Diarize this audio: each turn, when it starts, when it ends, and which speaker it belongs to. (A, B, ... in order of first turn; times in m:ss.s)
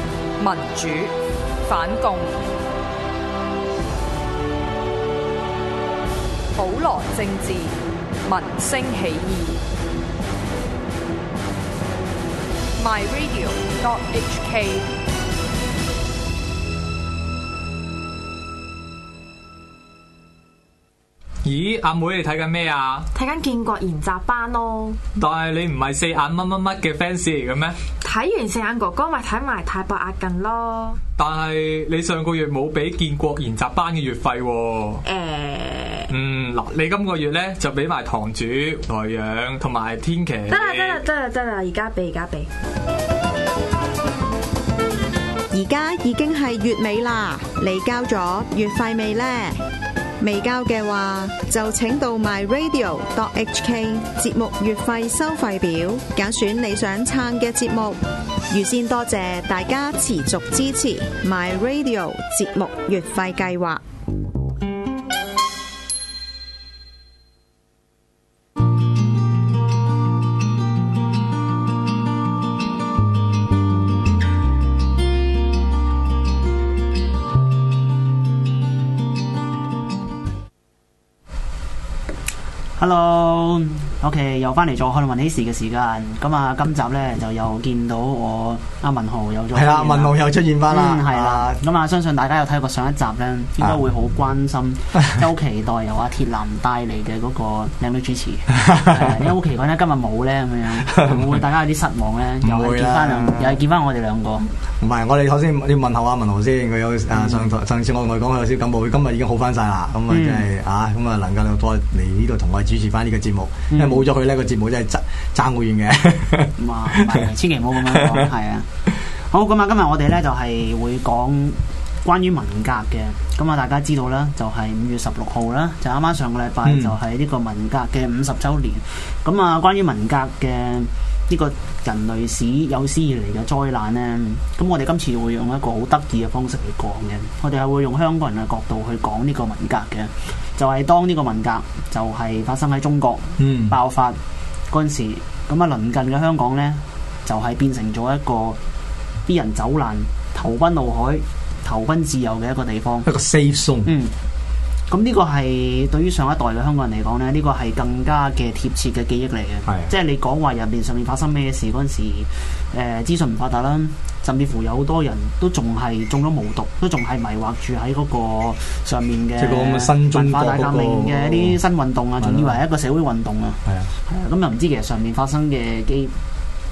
0:00.4-0:01.1 A
0:01.6-0:02.4 A
0:06.5-0:09.6 A
0:12.8-0:14.9 A
0:21.4-0:23.1 B
0:23.1-0:25.0 C
0:25.2-0:27.8 B
0:28.0-0:31.0 C
0:31.2-0:35.0 B
0:35.0-0:36.1 C
0:36.1-0:41.0 B
0:40.5-0:42.5 C
0:45.5-0:49.6 D
0:50.2-1:03.8 D
1:22.8-1:30.1 E
1:29.5-1:31.6 F
1:30.7-1:44.5 E
1:38.6-1:39.3 F
1:42.4-1:43.6 F
1:44.8-1:58.3 F
1:47.1-1:47.5 E
1:50.1-1:50.4 E
1:53.7-1:54.0 E
1:56.6-1:58.7 E
1:59.2-2:24.2 E
2:06.6-2:06.9 F
2:23.4-2:23.8 F
2:24.7-2:28.6 E
2:29.2-2:33.1 E
2:33.0-2:33.9 F
2:33.8-2:34.1 E
2:34.9-2:56.2 E
2:39.7-2:39.9 F
2:49.4-2:51.6 F
2:52.2-2:52.6 F